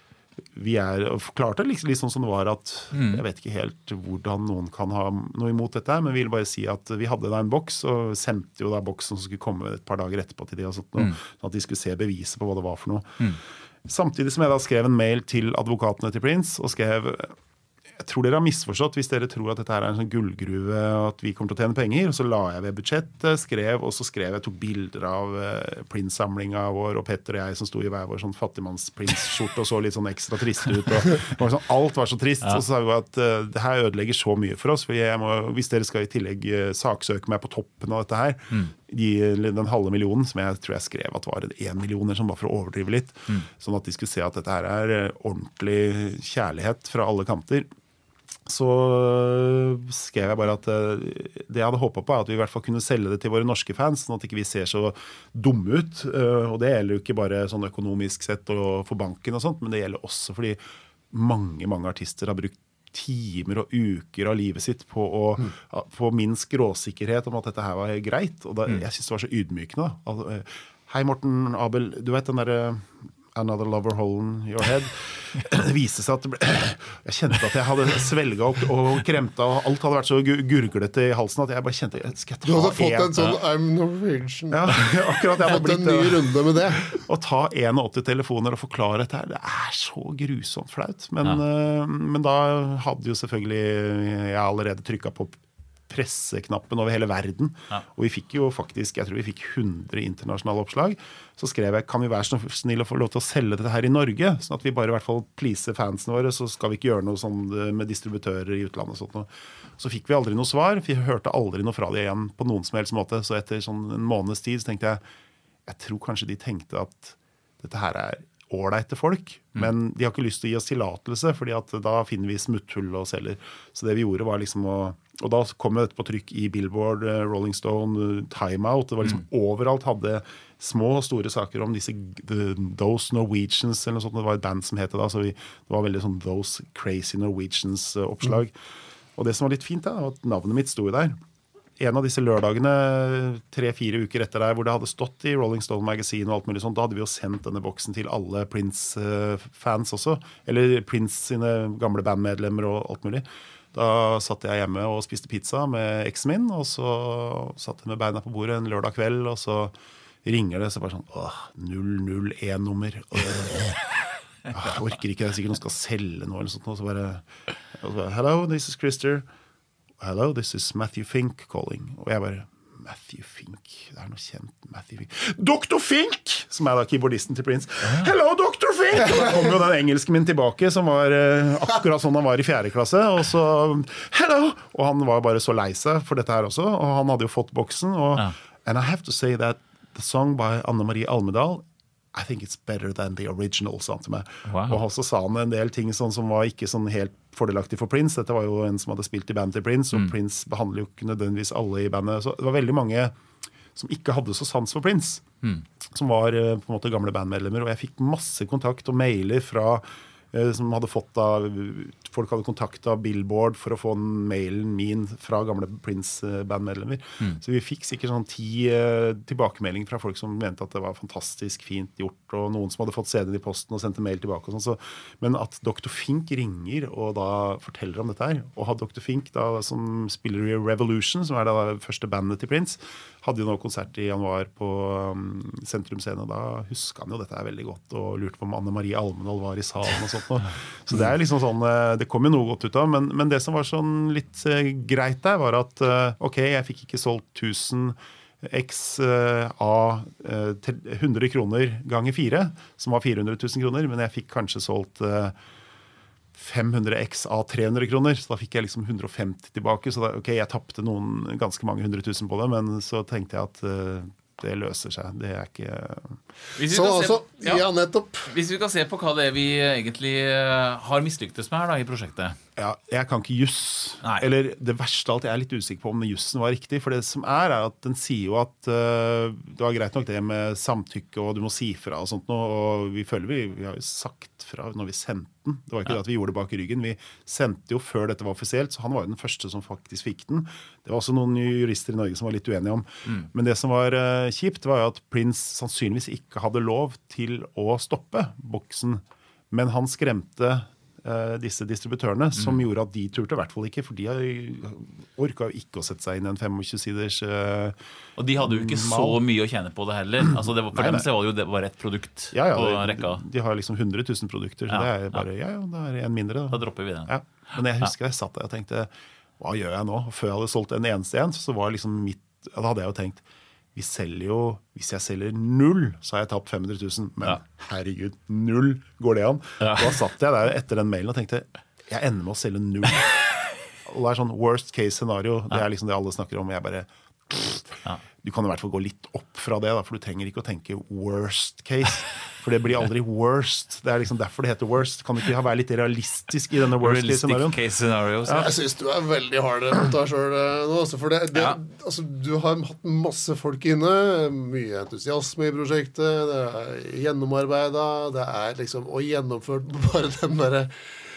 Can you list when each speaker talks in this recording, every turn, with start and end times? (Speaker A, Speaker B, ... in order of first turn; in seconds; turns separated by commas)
Speaker A: 0.5-13.2, Speaker B: 2.9-3.2, Speaker A: 13.9-17.4, Speaker A: 18.0-47.7, Speaker A: 48.5-60.6, Speaker A: 61.1-83.4, Speaker C: 82.4-86.9, Speaker A: 84.5-115.0, Speaker A: 115.7-138.5, Speaker A: 139.2-141.2, Speaker A: 141.8-163.8, Speaker A: 164.5-167.2, Speaker A: 167.8-169.3, Speaker A: 170.0-203.1, Speaker B: 194.5-194.8, Speaker A: 203.8-205.2, Speaker A: 205.9-255.4, Speaker A: 256.4-266.2, Speaker B: 266.6-267.6, Speaker C: 266.7-268.3, Speaker B: 268.3-272.4, Speaker A: 272.6-307.8, Speaker B: 308.2-313.2, Speaker A: 308.4-309.2, Speaker A: 310.7-311.1, Speaker A: 312.3-323.2, Speaker B: 316.5-317.1, Speaker A: 323.8-333.1, Speaker B: 329.6-329.9, Speaker A: 333.9-347.6, Speaker B: 346.8-348.5, Speaker C: 348.3-360.7, Speaker B: 351.3-351.6